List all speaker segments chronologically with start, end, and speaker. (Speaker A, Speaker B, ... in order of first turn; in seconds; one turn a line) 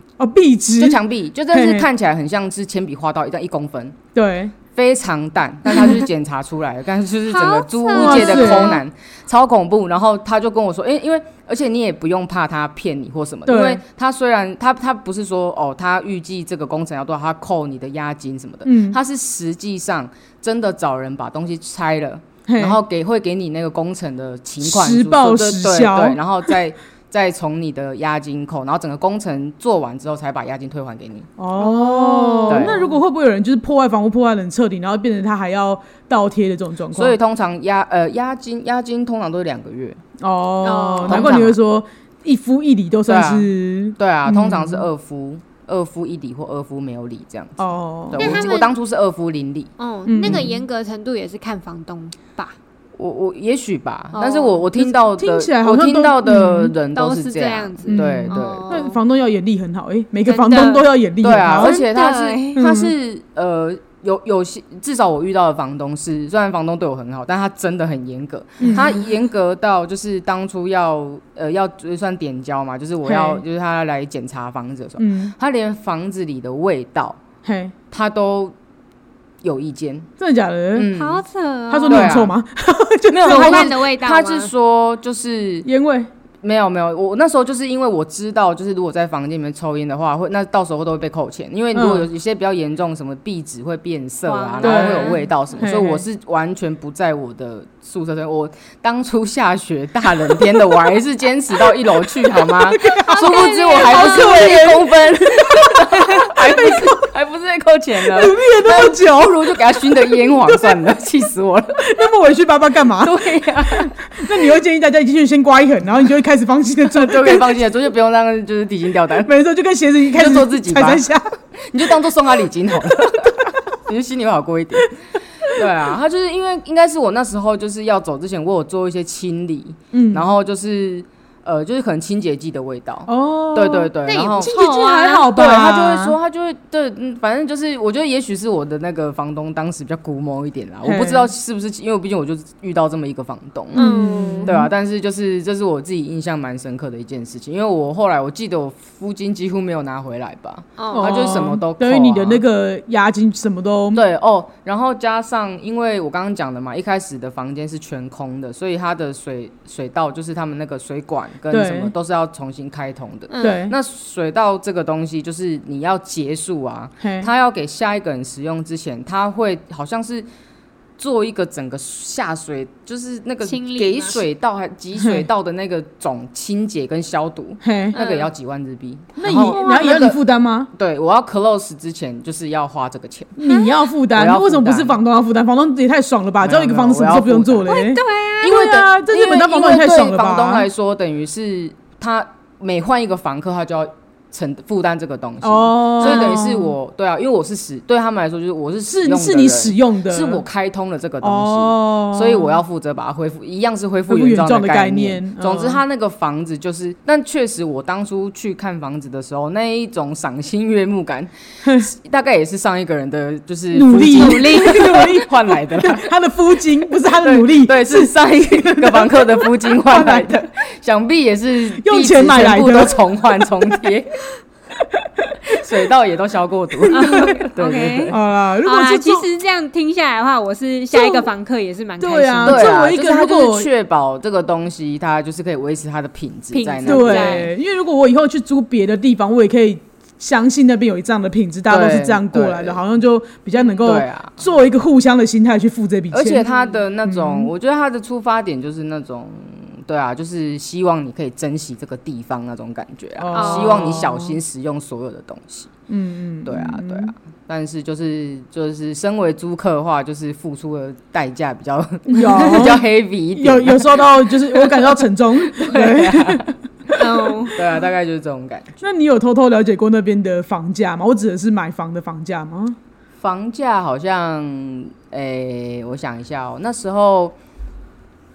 Speaker A: 0.2-1.0
Speaker B: 0.8-4.0
Speaker A: 1.5-1.9
Speaker A: 4.1-4.5
Speaker B: 4.7-31.3
Speaker C: 7.3-8.8
Speaker A: 7.9-8.8
Speaker A: 13.4-13.8
Speaker A: 18.6-19.0
Speaker A: 22.5-22.8
Speaker A: 24.6-26.6
Speaker A: 31.4-37.2
Speaker C: 31.6-32.9
Speaker B: 32.5-32.8
Speaker B: 36.9-40.0
Speaker A: 40.2-44.9
Speaker C: 40.6-41.4
Speaker B: 41.1-41.6
Speaker B: 43.1-49.7
Speaker A: 47.6-48.4
Speaker C: 48.1-48.7
Speaker C: 49.8-52.5
Speaker A: 50.1-50.6
Speaker B: 50.2-50.5
Speaker B: 53.0-58.7
Speaker C: 54.1-54.6
Speaker A: 54.8-56.7
Speaker C: 56.9-59.0
Speaker A: 57.9-61.8
Speaker C: 60.2-60.9
Speaker B: 61.2-77.2
Speaker C: 61.5-62.6
Speaker A: 62.5-62.9
Speaker A: 68.6-69.0
Speaker C: 68.6-69.0
Speaker A: 73.0-73.4
Speaker A: 75.0-75.3
Speaker A: 77.4-77.7
Speaker B: 77.9-78.5
Speaker B: 79.4-80.1
Speaker A: 80.2-80.9
Speaker B: 80.7-81.2
Speaker C: 80.9-82.2
Speaker A: 81.7-83.8
Speaker B: 81.9-82.3
Speaker B: 83.1-85.7
Speaker C: 83.2-84.5
Speaker A: 85.6-86.1
Speaker B: 86.4-111.9
Speaker A: 91.7-92.1
Speaker C: 94.2-95.3
Speaker A: 94.6-96.0
Speaker A: 102.5-106.9
Speaker C: 102.8-104.8
Speaker A: 108.0-110.8
Speaker A: 111.8-117.6
Speaker B: 113.0-113.9
Speaker B: 116.8-119.3
Speaker A: 119.2-121.3
Speaker B: 120.1-121.0
Speaker B: 121.6-125.0
Speaker B: 125.5-134.5
Speaker A: 129.9-130.3
Speaker A: 133.1-136.1
Speaker C: 134.1-135.3
Speaker B: 135.3-143.8
Speaker A: 140.8-141.3
Speaker A: 143.7-144.7
Speaker C: 143.7-144.5
Speaker B: 144.4-152.4
Speaker C: 150.8-151.4
Speaker A: 150.9-154.0
Speaker B: 153.9-170.3
Speaker A: 161.5-161.9
Speaker C: 163.3-163.6
Speaker A: 163.4-163.7
Speaker A: 167.0-167.3
Speaker B: 171.0-180.2
Speaker C: 173.4-174.2
Speaker A: 174.9-175.3
Speaker A: 177.6-178.0
Speaker C: 177.9-178.3
Speaker A: 179.2-180.7
Speaker C: 179.4-180.1
Speaker B: 180.7-183.3
Speaker A: 183.4-190.7
Speaker C: 183.4-183.9
Speaker B: 184.1-185.0
Speaker B: 186.4-187.7
Speaker C: 187.7-188.6
Speaker B: 188.4-216.1
Speaker A: 195.4-196.7
Speaker C: 196.0-196.4
Speaker A: 198.9-200.4
Speaker A: 201.2-202.6
Speaker A: 204.1-205.8
Speaker A: 211.6-211.9
Speaker A: 213.7-220.4
Speaker B: 217.2-224.2
Speaker A: 221.8-223.0
Speaker A: 224.8-225.7
Speaker B: 225.4-228.2
Speaker A: 226.8-227.3
Speaker C: 226.9-232.8
Speaker A: 228.1-229.2
Speaker A: 230.9-231.3
Speaker A: 232.0-233.7
Speaker B: 232.4-237.5
Speaker C: 236.5-237.5
Speaker A: 236.8-246.4
Speaker B: 241.7-242.8
Speaker B: 243.8-244.4
Speaker B: 246.1-255.7
Speaker C: 246.4-246.7
Speaker A: 247.0-247.5
Speaker A: 253.2-254.3
Speaker C: 253.3-254.0
Speaker A: 255.9-257.1
Speaker B: 256.4-268.7
Speaker A: 262.1-262.8
Speaker A: 263.3-266.5
Speaker C: 266.9-267.6
Speaker A: 268.8-272.8
Speaker B: 273.2-277.4